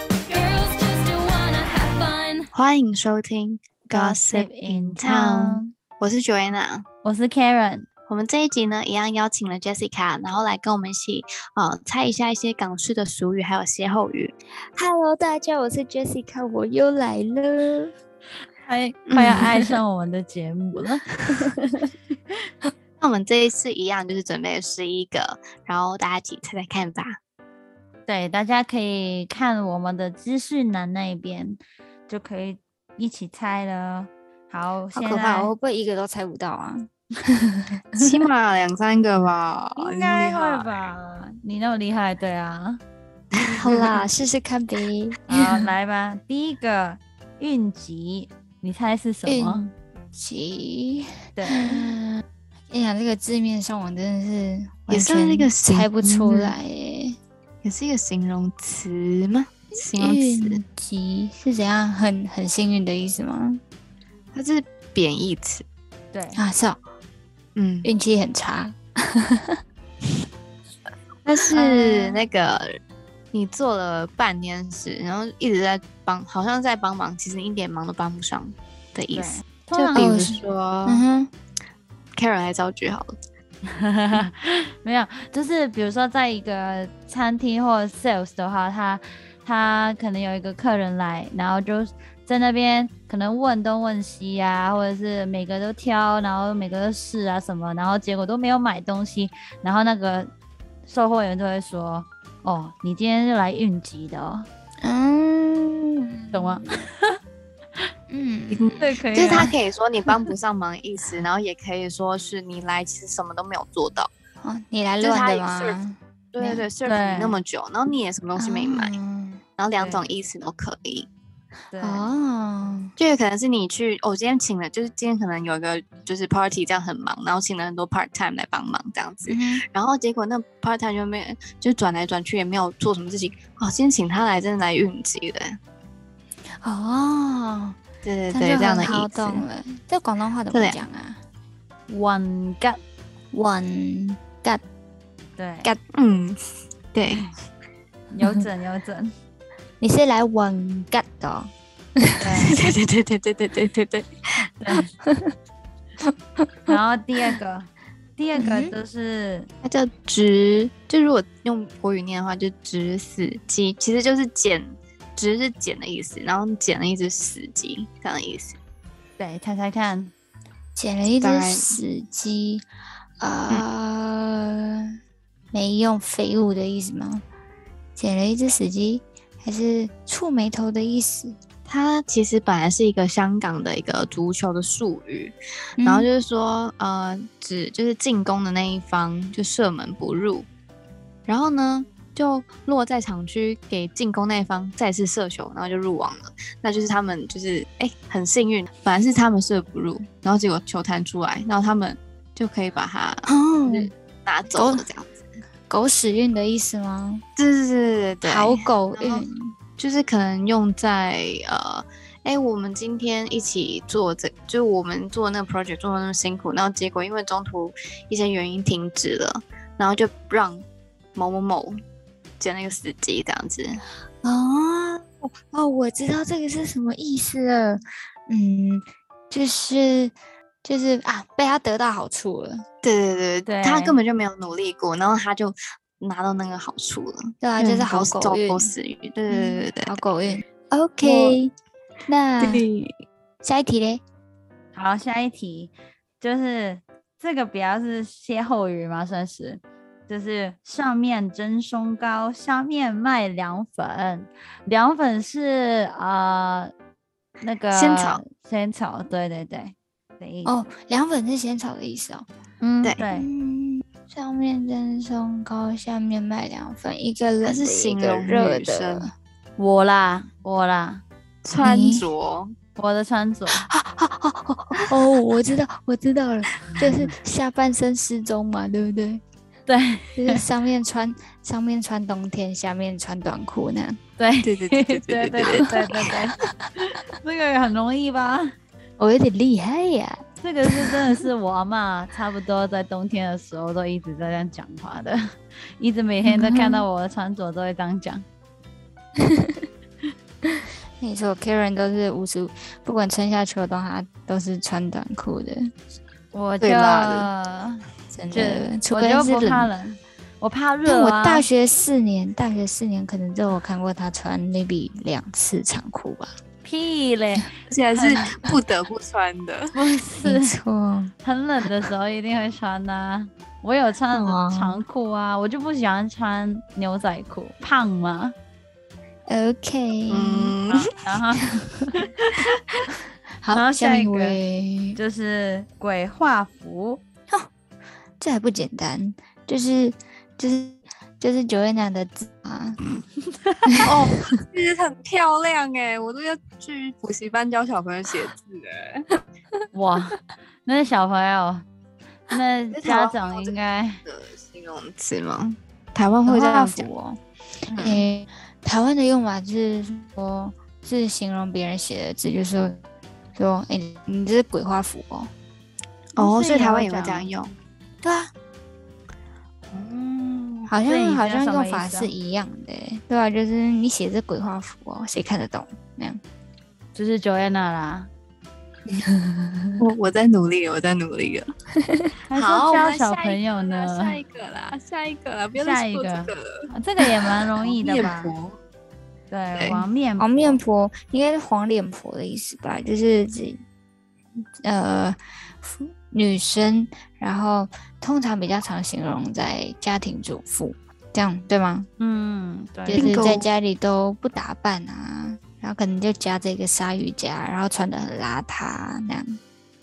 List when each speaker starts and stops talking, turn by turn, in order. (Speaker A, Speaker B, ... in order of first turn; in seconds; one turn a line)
Speaker A: 0.3-2.5
Speaker B: 2.5-6.8
Speaker A: 3.9-5.7
Speaker A: 7.0-7.9
Speaker B: 8.1-14.3
Speaker C: 14.8-17.9
Speaker A: 18.6-21.4
Speaker B: 19.1-19.6
Speaker C: 19.2-19.7
Speaker B: 23.0-27.2
Speaker A: 28.1-35.5
Speaker C: 34.9-38.0
Speaker B: 38.0-40.7
Speaker A: 39.8-42.8
Speaker C: 43.5-45.7
Speaker A: 45.3-49.7
Speaker C: 49.3-57.2
Speaker A: 51.4-52.0
Speaker B: 54.9-56.6
Speaker B: 57.6-60.6
Speaker C: 59.8-63.6
Speaker B: 64.3-65.7
Speaker A: 66.1-66.4
Speaker C: 66.4-66.8
Speaker B: 67.6-67.9
Speaker C: 67.8-69.6
Speaker B: 71.2-72.7
Speaker C: 71.5-71.9
Speaker B: 73.3-81.0
Speaker A: 79.1-80.2
Speaker C: 80.0-81.3
Speaker B: 82.2-83.1
Speaker A: 83.7-100.3
Speaker A: 100.8-104.5
Speaker C: 104.8-106.6
Speaker A: 106.3-107.2
Speaker C: 108.1-109.5
Speaker B: 108.5-114.1
Speaker A: 108.8-109.5
Speaker C: 114.4-116.6
Speaker B: 115.0-115.8
Speaker B: 116.3-119.0
Speaker A: 116.9-117.4
Speaker C: 118.4-119.4
Speaker B: 119.6-121.1
Speaker A: 119.8-120.0
Speaker A: 121.7-122.1
Speaker C: 121.8-123.0
Speaker B: 123.0-135.6
Speaker C: 129.3-129.6
Speaker C: 136.6-137.8
Speaker B: 138.0-139.5
Speaker C: 138.3-141.2
Speaker B: 140.5-140.8
Speaker A: 141.9-142.8
Speaker C: 143.3-144.6
Speaker A: 145.4-145.7
Speaker B: 145.9-146.4
Speaker B: 146.9-147.2
Speaker A: 148.1-149.1
Speaker C: 149.8-152.6
Speaker A: 152.2-152.6
Speaker B: 152.5-154.1
Speaker A: 154.4-154.9
Speaker C: 156.1-156.8
Speaker A: 156.7-159.5
Speaker C: 158.4-158.7
Speaker B: 159.6-168.6
Speaker A: 169.2-170.1
Speaker C: 170.8-172.6
Speaker B: 171.2-171.7
Speaker C: 173.2-174.8
Speaker C: 175.5-177.2
Speaker C: 178.0-181.4
Speaker B: 181.7-190.5
Speaker C: 185.8-186.1
Speaker B: 191.3-205.2
Speaker C: 203.3-203.9
Speaker C: 204.5-204.8
Speaker C: 205.7-207.2
Speaker B: 207.4-209.2
Speaker C: 208.2-209.6
Speaker B: 209.8-221.8
Speaker B: 222.4-223.8
Speaker C: 224.2-232.6
Speaker B: 232.8-240.0
Speaker A: 233.5-234.0
Speaker C: 237.4-238.7
Speaker C: 239.3-241.5
Speaker B: 241.0-241.4
Speaker C: 242.1-242.7
Speaker B: 242.4-242.9
Speaker C: 243.4-244.0
Speaker A: 244.7-256.7
Speaker A: 257.4-260.6
Speaker B: 257.7-258.2
Speaker C: 260.4-262.3
Speaker A: 262.6-263.3
Speaker C: 263.0-269.1
Speaker B: 267.4-269.1
Speaker A: 269.6-271.0
Speaker B: 271.4-272.5
Speaker C: 271.6-272.1
Speaker A: 272.8-273.7
Speaker C: 273.5-279.2
Speaker A: 279.7-280.4
Speaker C: 280.2-284.0
Speaker A: 284.2-288.5
Speaker B: 284.4-286.0
Speaker C: 289.0-291.2
Speaker A: 290.4-295.2
Speaker A: 295.8-298.2
Speaker C: 296.2-296.9
Speaker C: 299.2-299.6
Speaker C: 300.5-305.7
Speaker A: 306.3-311.5
Speaker B: 306.6-307.3
Speaker C: 308.1-309.7
Speaker C: 310.9-316.3
Speaker A: 316.6-318.3
Speaker B: 317.7-319.7
Speaker A: 319.7-320.6
Speaker C: 320.2-321.1
Speaker A: 321.2-328.3
Speaker C: 324.1-324.8
Speaker C: 329.3-330.6
Speaker B: 330.1-330.9
Speaker A: 330.8-332.3
Speaker C: 333.4-335.0
Speaker A: 333.5-334.4
Speaker A: 334.9-337.0
Speaker C: 338.2-342.8
Speaker B: 343.9-349.1
Speaker A: 349.7-351.6
Speaker A: 352.3-354.0
Speaker B: 352.7-356.9
Speaker C: 356.3-362.8
Speaker B: 357.7-358.0
Speaker C: 363.3-365.3
Speaker A: 366.2-367.3
Speaker B: 366.2-367.5
Speaker C: 368.0-368.3
Speaker B: 369.7-370.7
Speaker C: 370.7-376.2
Speaker A: 370.8-372.1
Speaker A: 376.9-378.1
Speaker C: 378.9-379.8
Speaker B: 379.8-381.5
Speaker A: 382.3-384.2
Speaker B: 382.4-386.7
Speaker A: 385.6-388.3
Speaker B: 387.6-388.6
Speaker A: 389.3-390.6
Speaker B: 389.6-389.9
Speaker C: 390.2-393.6
Speaker C: 394.6-401.9
Speaker A: 402.0-403.2
Speaker C: 402.9-409.4
Speaker B: 402.9-403.5